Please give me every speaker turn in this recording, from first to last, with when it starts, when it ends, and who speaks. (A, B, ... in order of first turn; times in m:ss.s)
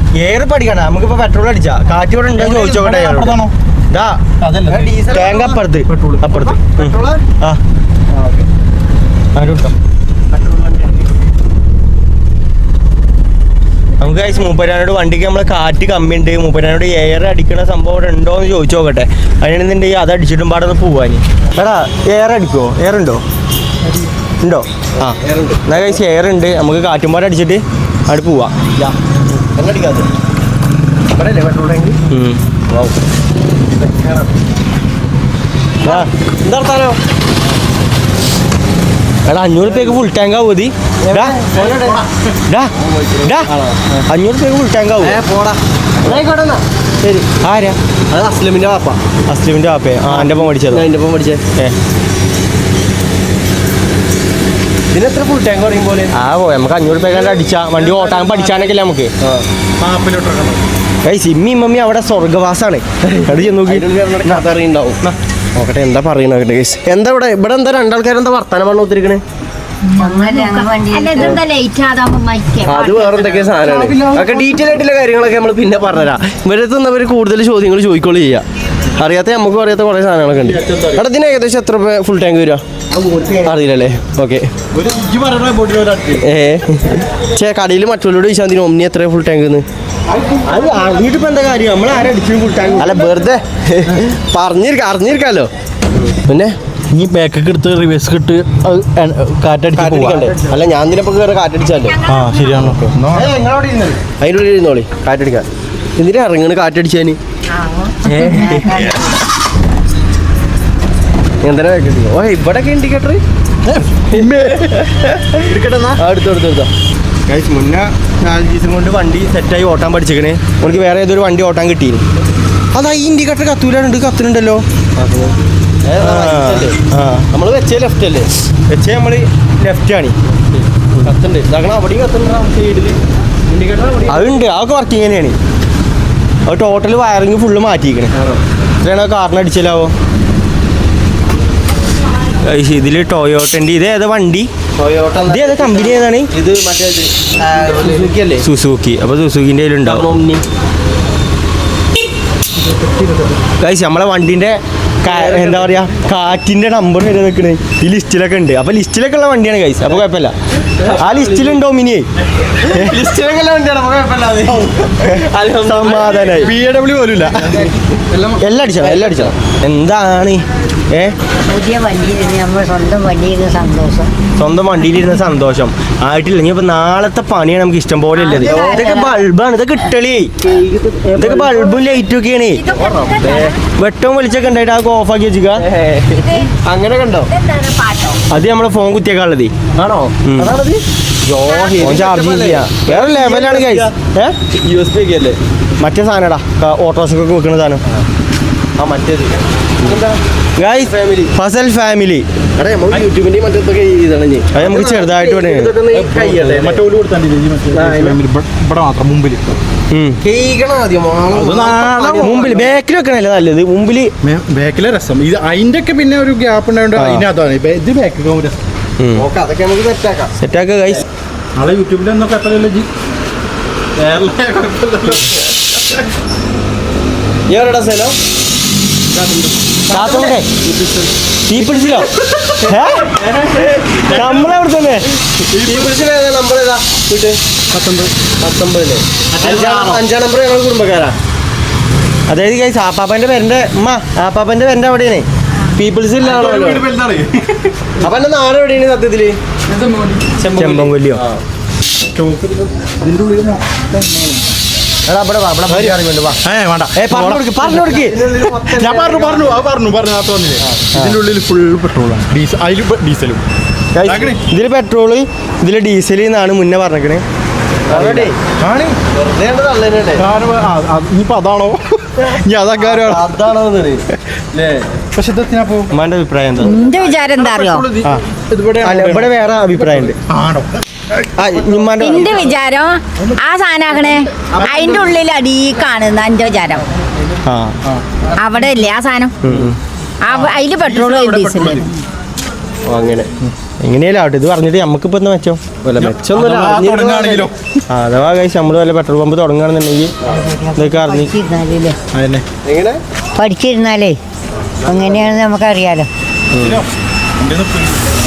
0:00.2-0:04.2 A
0:02.4-0:03.5 B
0:04.4-0:05.0 B
0:04.7-0:05.6 C
0:05.1-0:07.6 A
0:05.9-0:06.4 B
0:06.3-0:07.2 C
0:08.2-0:08.4 B
0:09.4-0:09.8 A
0:10.3-0:11.0 C
0:14.0-0:23.2 A
0:24.4-0:28.6 A
0:25.1-0:26.0 C
0:28.8-0:30.1 C
0:31.1-0:32.0 C
0:32.1-0:32.4 A
0:32.7-0:33.0 C
0:33.7-0:34.3 C
0:35.8-0:36.1 A
0:35.8-0:37.0 C
0:39.3-0:41.4 A
0:41.0-0:42.1 C
0:41.5-0:42.0 B
0:42.5-0:43.5 A
0:42.8-0:44.0 C
0:44.1-0:45.2 A
0:45.0-0:47.3 C
0:47.4-0:47.8 A
0:48.1-0:49.0 C
0:49.3-0:50.9 A
0:50.1-0:51.4 C
0:54.9-0:56.1 C
0:56.1-0:59.1 A
0:57.8-0:58.7 B
0:59.8-1:00.6 B
1:01.0-1:04.5 A
1:03.1-1:05.0 C
1:05.6-1:09.2 C
1:09.9-1:13.6 D
1:10.0-1:11.4 E
1:12.6-1:18.4 C
1:13.4-1:14.6 B
1:19.0-1:22.6 C
1:20.4-1:21.0 B
1:22.9-1:23.5 A
1:23.4-1:24.5 C
1:24.7-1:26.3 B
1:26.2-1:29.6 C
1:30.4-1:33.2 A
1:32.8-1:35.5 C
1:36.0-1:36.6 C
1:36.9-1:40.4 B
1:39.8-1:42.0 C
1:41.8-1:42.7 D
1:42.1-1:43.4 B
1:42.7-1:42.9 C
1:43.1-1:44.0 A
1:44.2-1:47.2 C
1:47.6-1:49.0 E
1:48.0-1:49.0 C
1:51.4-1:53.2 C
1:53.7-1:54.8 B
1:54.1-1:56.7 C
1:55.5-1:56.0 B
1:57.3-2:02.0 A
2:02.7-2:04.6 A
2:05.0-2:06.8 C
2:06.0-2:07.3 A
2:07.3-2:08.3 C
2:08.7-2:10.2 A
2:10.5-2:14.4 C
2:14.1-2:15.4 A
2:16.5-2:18.1 A
2:18.2-2:18.4 C
2:18.8-2:19.9 A
2:22.4-2:24.5 A
2:24.8-2:28.5 C
2:25.3-2:26.3 A
2:28.4-2:30.1 A
2:29.8-2:30.4 C
2:33.6-2:40.4 A
2:35.1-2:35.8 C
2:40.8-2:41.6 C
2:41.0-2:42.1 A
2:42.5-2:46.5 C
2:42.7-2:43.0 A
2:45.6-2:46.5 A
2:46.4-2:47.8 B
2:47.5-2:49.4 C
2:48.4-2:51.2 A
2:51.5-2:54.1 E
2:54.4-3:00.3 A
2:58.2-2:59.2 E
2:58.3-2:59.0 C
3:00.4-3:01.8 C
3:01.2-3:02.6 A
3:02.5-3:03.6 D
3:02.7-3:03.5 C
3:03.7-3:05.7 A
3:05.6-3:07.3 C
3:06.1-3:06.6 D
3:07.3-3:08.2 D
3:08.3-3:09.6 A
3:09.7-3:14.0 C
3:10.2-3:10.6 A
3:11.4-3:12.0 D
3:11.8-3:14.4 A
3:14.5-3:15.4 C
3:15.8-3:17.8 A
3:18.8-3:20.2 C
3:20.6-3:22.3 A
3:20.8-3:21.3 C
3:22.6-3:26.8 C
3:24.5-3:25.8 A
3:25.9-3:29.6 B
3:27.7-3:28.2 C
3:29.9-3:30.2 A
3:30.2-3:32.7 C
3:31.3-3:32.5 B
3:32.2-3:34.1 A
3:34.2-3:38.6 B
3:37.0-3:37.3 A
3:39.0-3:39.3 A
3:39.2-3:40.3 C
3:40.4-3:41.0 A
3:41.6-3:42.9 B
3:44.0-3:45.4 C
3:47.5-3:48.2 C
3:49.2-3:50.0 B
3:49.2-3:51.1 C
3:49.9-3:50.5 A
3:51.5-3:52.1 A
3:51.6-3:52.5 B
3:52.6-3:54.4 C
3:52.6-3:53.2 A
3:54.0-3:54.5 B
3:54.1-3:55.1 A
3:55.4-3:57.4 C
3:55.5-3:55.9 B
3:57.7-3:58.1 B
3:58.3-4:01.2 C
3:59.3-4:00.0 B
4:02.3-4:05.3 A
4:05.8-4:06.8 C
4:06.2-4:07.9 B
4:08.0-4:09.4 C
4:09.7-4:10.4 B
4:10.4-4:11.4 C
4:10.5-4:11.2 A
4:12.1-4:14.4 B
4:15.1-4:16.4 A
4:16.4-4:17.4 B
4:16.9-4:18.3 A
4:17.6-4:19.6 C
4:18.4-4:23.4 B
4:20.6-4:20.9 C
4:23.9-4:27.2 A
4:24.0-4:24.4 B
4:27.9-4:28.4 C
4:27.9-4:28.3 A
4:28.1-4:29.0 B
4:29.1-4:30.3 C
4:30.2-4:33.3 B
4:32.8-4:34.9 C
4:35.2-4:35.9 B
4:35.9-4:36.8 A
4:36.6-4:37.9 D
4:36.9-4:40.8 B
4:38.8-4:40.2 A
4:41.4-4:42.5 A
4:42.0-4:46.9 D
4:44.5-4:45.1 C
4:47.5-4:47.8 A
4:48.4-4:49.4 D
4:49.4-4:49.8 A
4:50.2-4:51.9 D
4:50.3-4:51.9 B
4:52.9-4:53.3 C
4:53.8-4:55.6 A
4:55.8-4:57.5 C
4:56.0-4:57.6 B
4:57.9-5:00.1 A
5:00.3-5:02.0 E
5:00.8-5:01.3 A
5:02.1-5:02.5 B
5:02.6-5:03.0 C
5:03.4-5:04.2 E
5:04.8-5:05.3 C
5:04.9-5:06.1 E
5:06.5-5:06.8 A
5:06.6-5:08.2 B